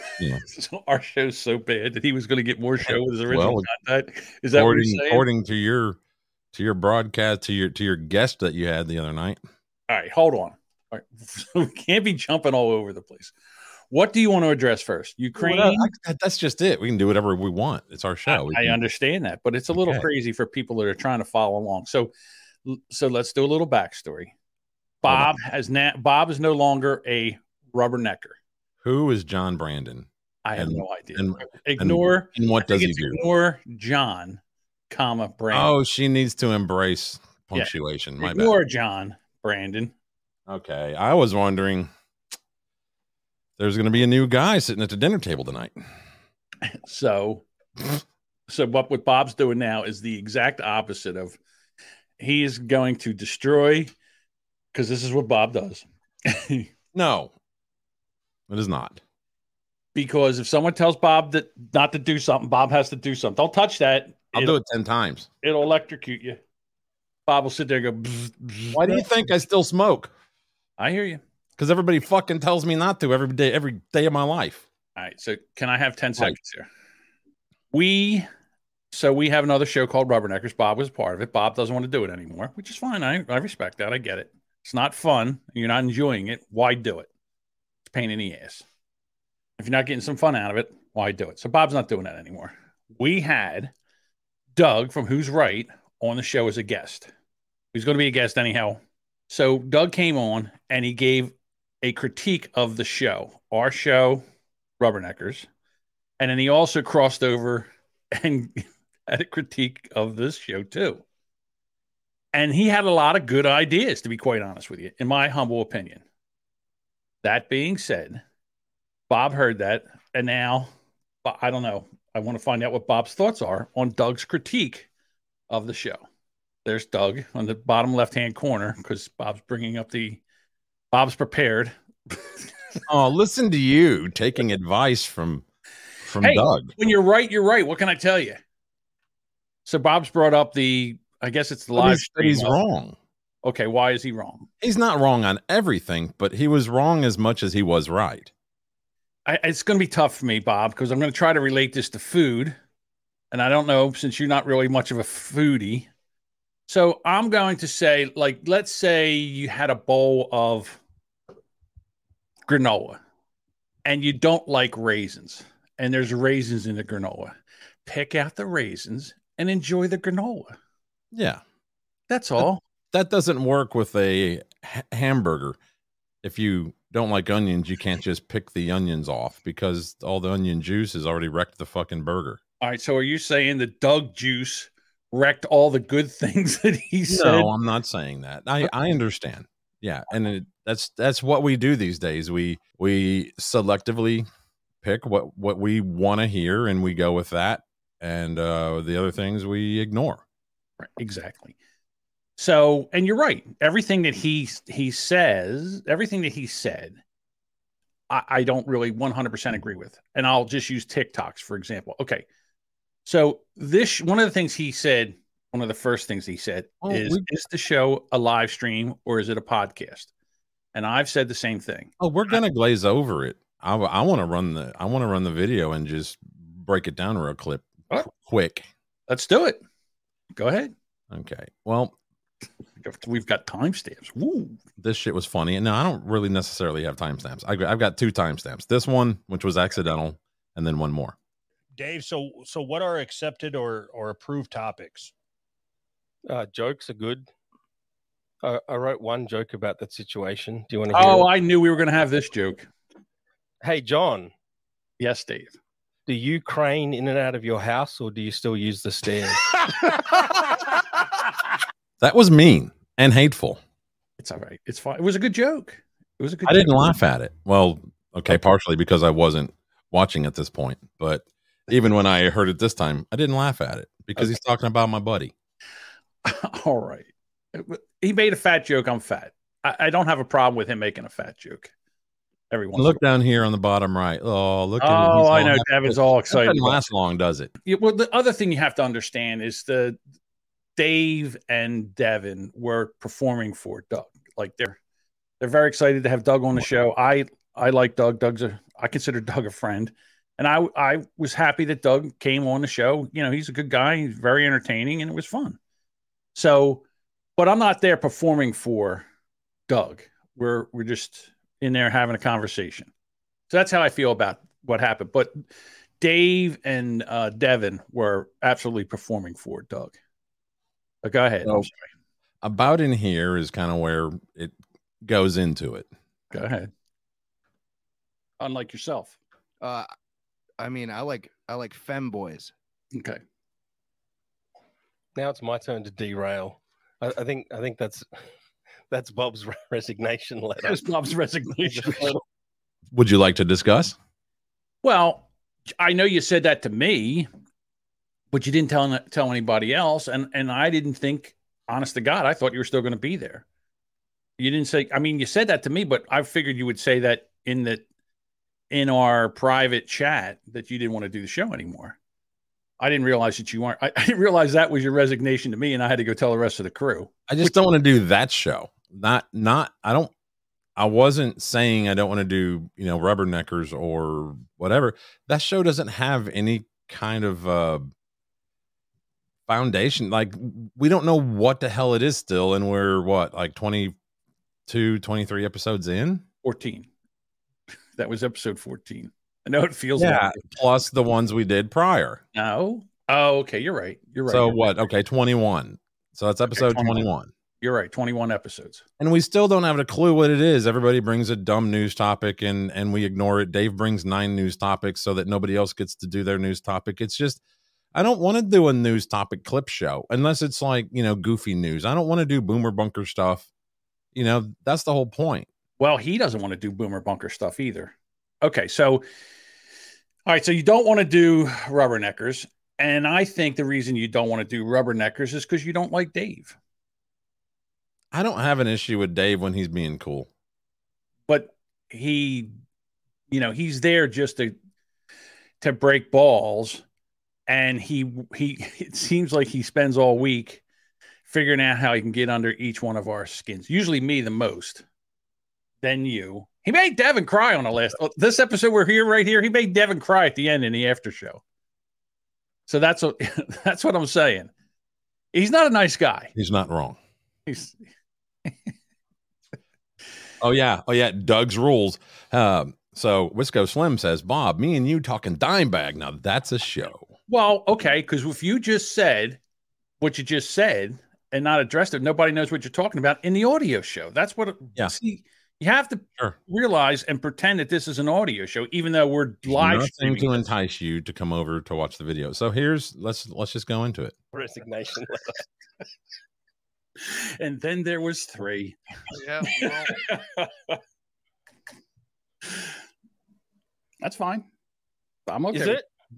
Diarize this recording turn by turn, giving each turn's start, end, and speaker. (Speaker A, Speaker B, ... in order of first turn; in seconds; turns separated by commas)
Speaker A: 0.5-5.3, Speaker B: 2.9-3.7, Speaker B: 4.5-6.0, Speaker B: 6.5-9.4, Speaker A: 9.9-13.3, Speaker A: 13.9-15.9, Speaker B: 15.4-18.8, Speaker A: 18.3-22.1, Speaker B: 19.7-20.1, Speaker A: 22.6-24.3, Speaker A: 25.0-28.4, Speaker B: 25.1-25.3, Speaker B: 28.8-33.2, Speaker A: 30.4-35.7, Speaker B: 35.5-38.5, Speaker A: 37.5-39.9, Speaker B: 40.5-41.9, Speaker B: 43.6-45.8, Speaker A: 46.7-47.4, Speaker A: 48.5-51.4, Speaker A: 52.2-53.9, Speaker A: 54.7-56.7, Speaker B: 56.9-57.3, Speaker B: 58.5-59.0, Speaker A: 60.0-64.6, Speaker B: 64.3-65.3, Speaker A: 65.4-66.4, Speaker A: 67.3-69.1, Speaker B: 68.7-70.1, Speaker A: 70.8-71.2, Speaker B: 71.6-74.7, Speaker A: 75.0-76.7, Speaker A: 77.7-78.3, Speaker A: 78.9-87.1, Speaker A: 87.8-88.7, Speaker A: 89.6-93.7, Speaker A: 94.6-97.1, Speaker A: 97.7-104.2, Speaker A: 104.8-105.5, Speaker A: 106.2-111.0, Speaker A: 112.3-116.0, Speaker A: 117.2-118.2, Speaker A: 119.1-120.7, Speaker A: 121.2-124.9, Speaker A: 125.5-126.0, Speaker A: 126.7-130.2, Speaker A: 130.9-132.4, Speaker B: 132.9-135.5, Speaker B: 136.0-136.7, Speaker A: 136.2-138.4, Speaker A: 139.7-142.6, Speaker B: 141.8-143.0, Speaker A: 143.4-144.5, Speaker B: 144.6-148.3, Speaker A: 149.3-152.6, Speaker A: 153.3-155.9, Speaker A: 156.7-160.8, Speaker A: 162.5-163.0, Speaker A: 163.8-167.3, Speaker A: 167.9-170.6, Speaker B: 171.1-171.4, Speaker A: 172.1-172.6, Speaker B: 172.9-175.6, Speaker B: 176.2-182.4, Speaker A: 182.6-187.5, Speaker B: 187.1-194.3, Speaker B: 194.8-200.2, Speaker A: 200.8-201.6, Speaker A: 202.4-207.0, Speaker A: 208.1-212.2, Speaker A: 213.1-220.1, Speaker B: 216.8-217.3, Speaker A: 220.7-222.4, Speaker B: 222.0-228.7, Speaker A: 229.1-229.6, Speaker A: 230.3-230.7, Speaker B: 231.1-232.0, Speaker A: 232.8-234.6, Speaker B: 234.8-241.2, Speaker C: 241.8-245.1, Speaker D: 246.3-247.3, Speaker D: 248.4-251.3, Speaker A: 250.9-252.7, Speaker D: 253.6-254.3, Speaker A: 255.0-255.6, Speaker D: 256.1-259.7, Speaker B: 262.0-263.6, Speaker A: 264.2-267.0, Speaker B: 266.4-275.3, Speaker A: 276.2-281.7, Speaker A: 282.5-283.0, Speaker B: 282.8-287.5, Speaker A: 284.8-286.9, Speaker A: 287.6-290.0, Speaker A: 290.8-294.8, Speaker A: 295.4-305.6, Speaker A: 306.4-306.8, Speaker A: 307.4-309.1, Speaker A: 309.7-312.9, Speaker A: 313.5-315.4, Speaker A: 316.0-320.0, Speaker A: 321.0-321.7, Speaker B: 321.4-321.7, Speaker B: 322.4-325.9, Speaker A: 326.3-326.7, Speaker A: 328.4-329.2, Speaker E: 329.6-329.9, Speaker E: 330.6-332.5, Speaker A: 332.9-333.2, Speaker D: 335.2-338.1, Speaker D: 338.9-340.8, Speaker A: 340.6-342.2, Speaker D: 341.7-342.2, Speaker B: 342.9-344.0, Speaker A: 344.8-347.3, Speaker A: 348.3-353.4, Speaker A: 354.4-357.9, Speaker A: 358.7-362.0, Speaker A: 362.8-367.6, Speaker B: 367.3-370.1, Speaker B: 370.8-377.9, Speaker B: 379.5-383.9, Speaker B: 384.7-386.2, Speaker A: 386.4-386.9, Speaker A: 388.0-390.4, Speaker B: 390.0-392.2, Speaker A: 392.3-394.6, Speaker B: 394.3-397.3, Speaker A: 396.5-397.1, Speaker A: 397.6-398.8, Speaker B: 399.0-407.4, Speaker B: 407.9-413.5, Speaker B: 414.1-415.5, Speaker A: 415.8-419.0, Speaker A: 420.3-426.6, Speaker B: 428.1-430.3, Speaker A: 431.3-432.5, Speaker A: 433.3-434.6, Speaker A: 435.6-436.8, Speaker A: 437.5-440.6, Speaker A: 441.3-444.8, Speaker A: 445.8-451.4, Speaker A: 452.7-454.5, Speaker A: 455.3-456.3, Speaker B: 456.4-457.0, Speaker A: 457.5-457.8, Speaker B: 460.4-467.1, Speaker A: 467.3-469.4, Speaker A: 470.0-480.4, Speaker B: 479.5-484.1, Speaker D: 484.3-485.4, Speaker A: 487.0-488.8, Speaker E: 489.2-490.0, Speaker A: 489.4-490.8, Speaker A: 494.0-494.5, Speaker A: 495.3-495.8, Speaker D: 495.5-495.9